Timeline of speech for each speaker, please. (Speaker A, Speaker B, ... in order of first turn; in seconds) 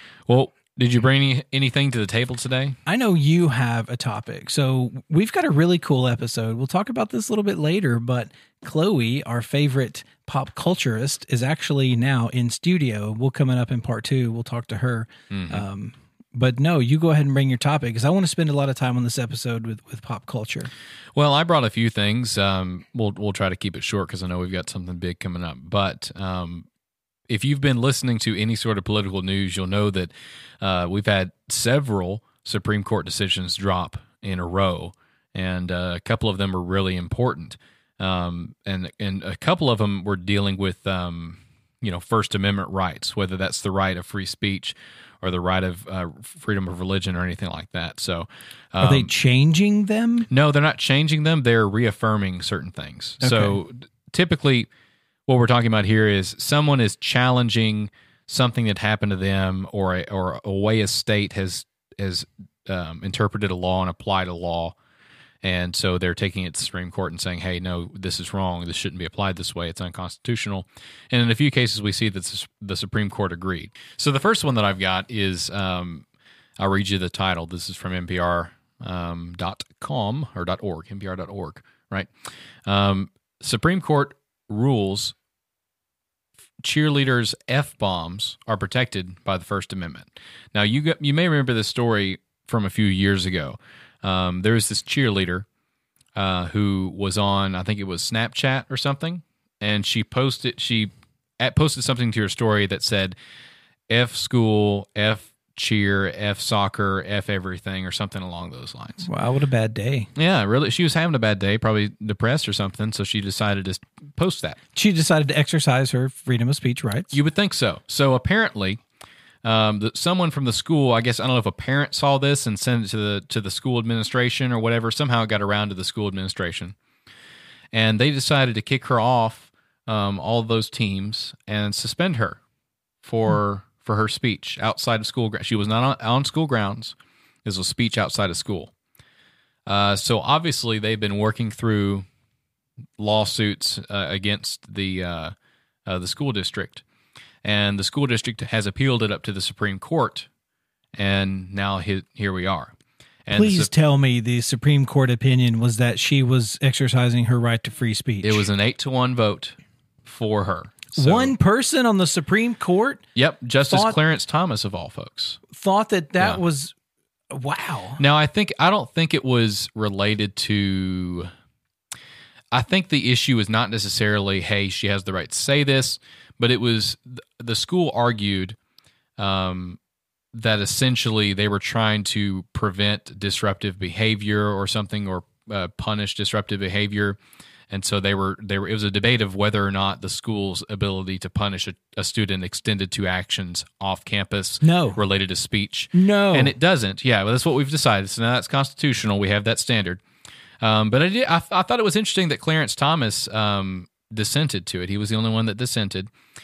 Speaker A: 0.3-2.8, 15.3-15.7, 21.1-26.7, 27.3-49.1, 50.3-54.7, 55.3-64.8, 65.4-76.0, 76.6-82.1, 82.7-85.2, 86.6-95.5, 96.2-103.2, 103.9-109.1, 110.2-114.6, 117.1-118.8, 119.4-126.8, 127.7-132.4, 133.0-138.7, 139.7-142.1, 143.0-145.3, 145.9-146.8, 147.4-150.3, 150.9-152.7, 153.3-153.7, 158.2-161.3, 163.2-165.4, 168.0-171.3, 172.5-178.6, 179.2-179.8, 180.3-187.2, 187.7-200.0, 200.6-206.1
Speaker B: 2.9-20.7, 48.8-50.3, 53.2-53.6, 109.0-110.1, 114.8-117.2, 153.3-158.4, 160.9-163.0, 163.7-164.0, 165.5-166.8, 167.3-168.0, 194.6-195.0, 195.9-196.5